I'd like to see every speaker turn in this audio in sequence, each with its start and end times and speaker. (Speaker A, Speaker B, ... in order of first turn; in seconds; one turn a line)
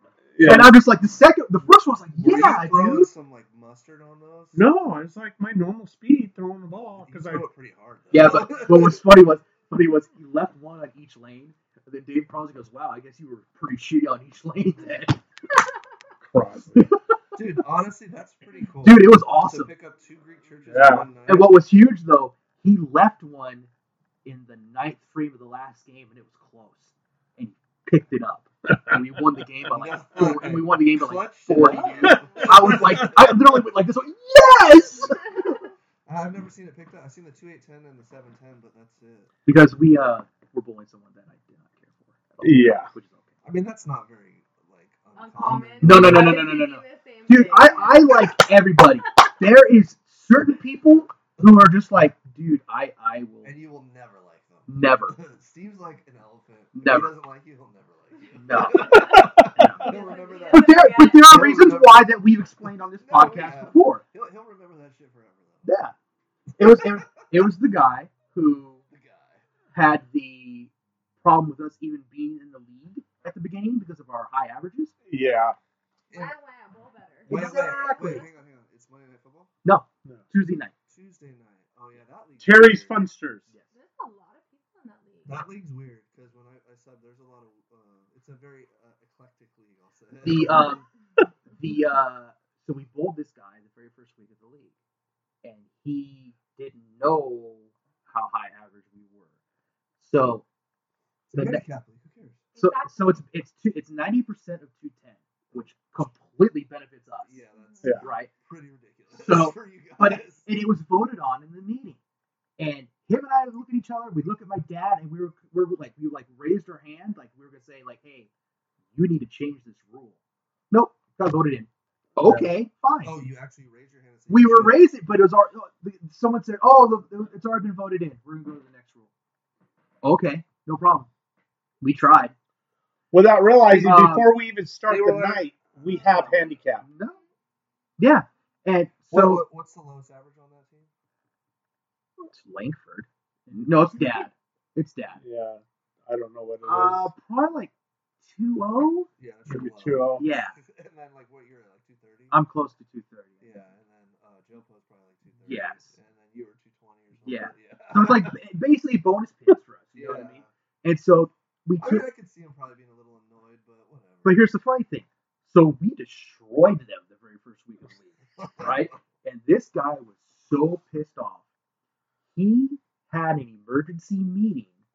Speaker A: 0.3-0.8
Speaker B: 0.4-3.1
Speaker C: 2.2-4.7
Speaker A: 4.5-7.5
Speaker C: 7.0-9.0
Speaker B: 8.1-15.2
Speaker A: 16.2-16.9
Speaker C: 17.3-21.6
Speaker B: 18.8-19.8
Speaker A: 20.7-21.1
Speaker B: 21.3-23.7
Speaker B: 24.2-35.6
Speaker C: 29.7-33.4
Speaker D: 31.6-32.9
Speaker D: 35.0-35.6
Speaker C: 36.0-39.3
Speaker B: 39.5-43.4
Speaker A: 42.4-42.9
Speaker C: 43.4-46.5
Speaker D: 45.1-48.5
Speaker B: 45.8-53.6
Speaker C: 53.4-65.7
Speaker B: 54.7-55.2
Speaker B: 56.7-57.1
Speaker B: 58.4-59.9
Speaker D: 58.5-61.6
Speaker A: 59.0-59.4
Speaker B: 60.5-64.0
Speaker B: 65.6-66.0
Speaker C: 66.6-67.5
Speaker B: 66.6-68.8
Speaker C: 68.9-69.5
Speaker B: 69.7-74.9
Speaker A: 75.1-75.6
Speaker C: 76.1-76.4
Speaker D: 76.1-78.3
Speaker B: 77.3-78.2
Speaker C: 77.3-79.5
Speaker B: 79.7-80.7
Speaker C: 80.9-83.1
Speaker A: 82.4-83.5
Speaker B: 83.5-83.8
Speaker D: 83.7-85.5
Speaker C: 85.2-90.8
Speaker B: 90.2-90.9
Speaker B: 91.5-94.7
Speaker B: 95.4-99.3
Speaker B: 100.0-100.5
Speaker B: 101.3-101.7
Speaker C: 101.3-102.5
Speaker D: 102.5-103.2
Speaker B: 102.6-107.4
Speaker C: 105.5-106.1
Speaker C: 107.2-110.5
Speaker D: 107.5-108.0
Speaker B: 108.0-108.3
Speaker B: 109.1-112.0
Speaker B: 112.6-118.3
Speaker B: 118.9-120.2
Speaker B: 120.7-123.2
Speaker C: 123.0-124.9
Speaker B: 124.3-129.1
Speaker B: 130.0-131.1
Speaker B: 131.8-132.3
Speaker A: 133.1-136.8
Speaker B: 133.7-134.3
Speaker C: 134.9-136.6
Speaker B: 136.8-137.2
Speaker D: 137.0-137.3
Speaker B: 138.0-139.4
Speaker C: 139.1-140.9
Speaker B: 142.2-145.2
Speaker A: 145.2-147.1
Speaker B: 146.6-149.1
Speaker C: 149.2-152.4
Speaker A: 149.5-150.2
Speaker B: 150.2-150.6
Speaker B: 152.3-153.6
Speaker C: 153.4-158.4
Speaker B: 155.4-155.9
Speaker B: 157.2-162.1
Speaker C: 159.9-160.5
Speaker C: 161.8-164.5
Speaker B: 164.2-171.4
Speaker C: 168.4-169.0
Speaker B: 172.3-174.8